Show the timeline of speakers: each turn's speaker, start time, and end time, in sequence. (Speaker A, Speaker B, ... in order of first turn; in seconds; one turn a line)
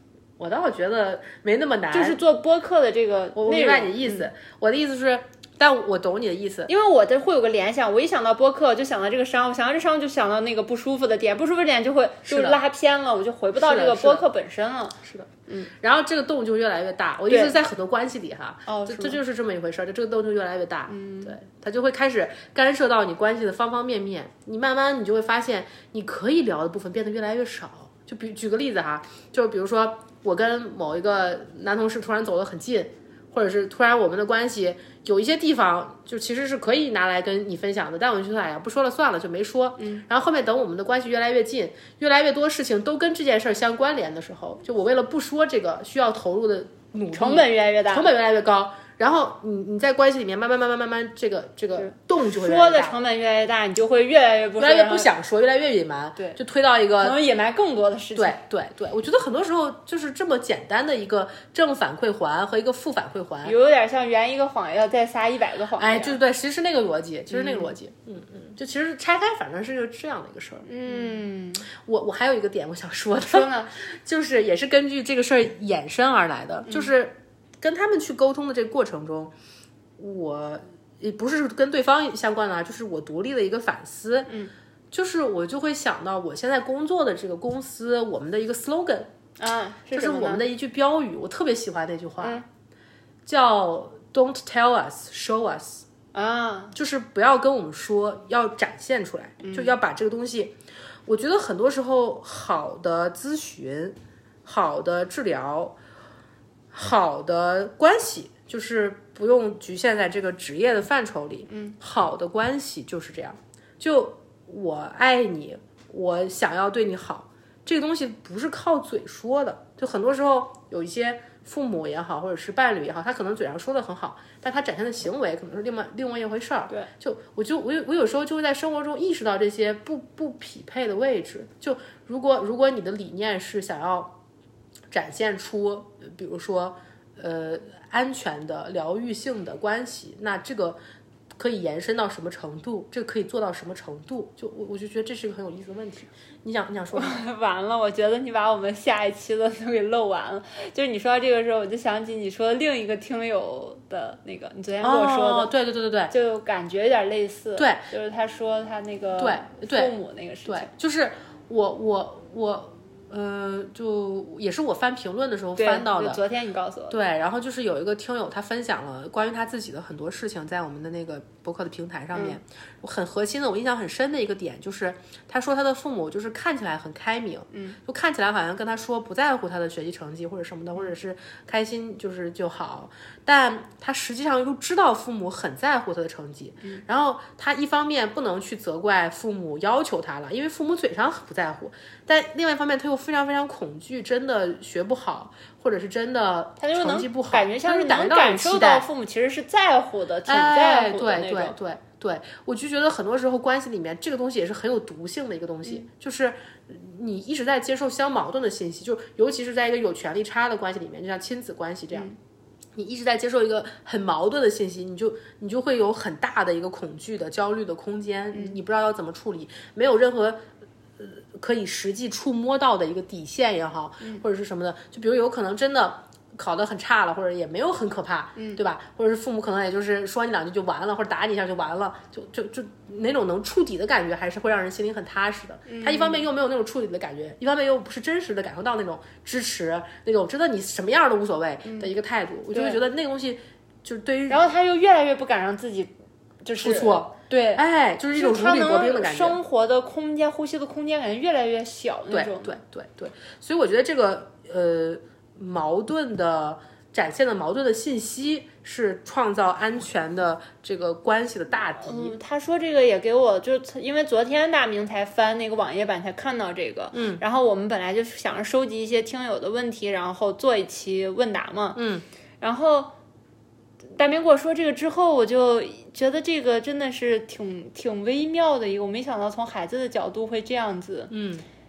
Speaker A: 0.4-2.2
Speaker B: 1.9-4.3
Speaker A: 3.4-6.7
Speaker B: 6.7-15.7
Speaker A: 12.3-12.6
Speaker A: 13.6-14.2
Speaker A: 15.1-53.0
Speaker B: 17.3-17.6
Speaker B: 18.7-19.2
Speaker B: 20.9-21.4
Speaker B: 39.8-40.0
Speaker B: 47.1-48.1
Speaker B: 51.8-55.1
Speaker A: 54.6-57.2
Speaker B: 57.0-58.4
Speaker A: 58.1-63.5
Speaker B: 63.4-66.2
Speaker A: 65.8-79.3
Speaker B: 67.3-67.7
Speaker B: 70.7-71.7
Speaker B: 73.2-73.7
Speaker B: 76.7-76.9
Speaker A: 80.0-84.3
Speaker A: 84.9-89.1
Speaker B: 89.4-90.4
Speaker A: 89.9-92.4
Speaker A: 93.2-95.8
Speaker B: 96.1-96.7
Speaker A: 96.7-105.8
Speaker B: 99.4-99.8
Speaker A: 106.7-134.2
Speaker B: 111.5-111.8
Speaker A: 134.9-140.8
Speaker A: 141.4-147.2
Speaker B: 146.9-155.5
Speaker A: 154.8-156.1
Speaker B: 156.1-160.7
Speaker A: 157.6-157.8
Speaker A: 159.2-159.9
Speaker A: 160.4-166.2
Speaker B: 165.6-167.0
Speaker A: 166.9-198.9
Speaker B: 172.1-172.4
Speaker B: 177.5-177.8
Speaker B: 196.6-201.5
Speaker A: 200.2-212.1
Speaker A: 212.8-220.4
Speaker A: 221.0-244.5
Speaker B: 235.7-236.3
Speaker B: 241.6-241.9
Speaker B: 242.5-242.8
Speaker B: 244.3-245.9
Speaker B: 246.4-252.6
Speaker A: 246.6-249.4
Speaker A: 252.1-262.1
Speaker B: 261.8-271.8
Speaker A: 266.9-267.2
Speaker A: 271.8-272.0
Speaker B: 272.4-272.9
Speaker B: 273.9-281.1
Speaker A: 281.1-281.4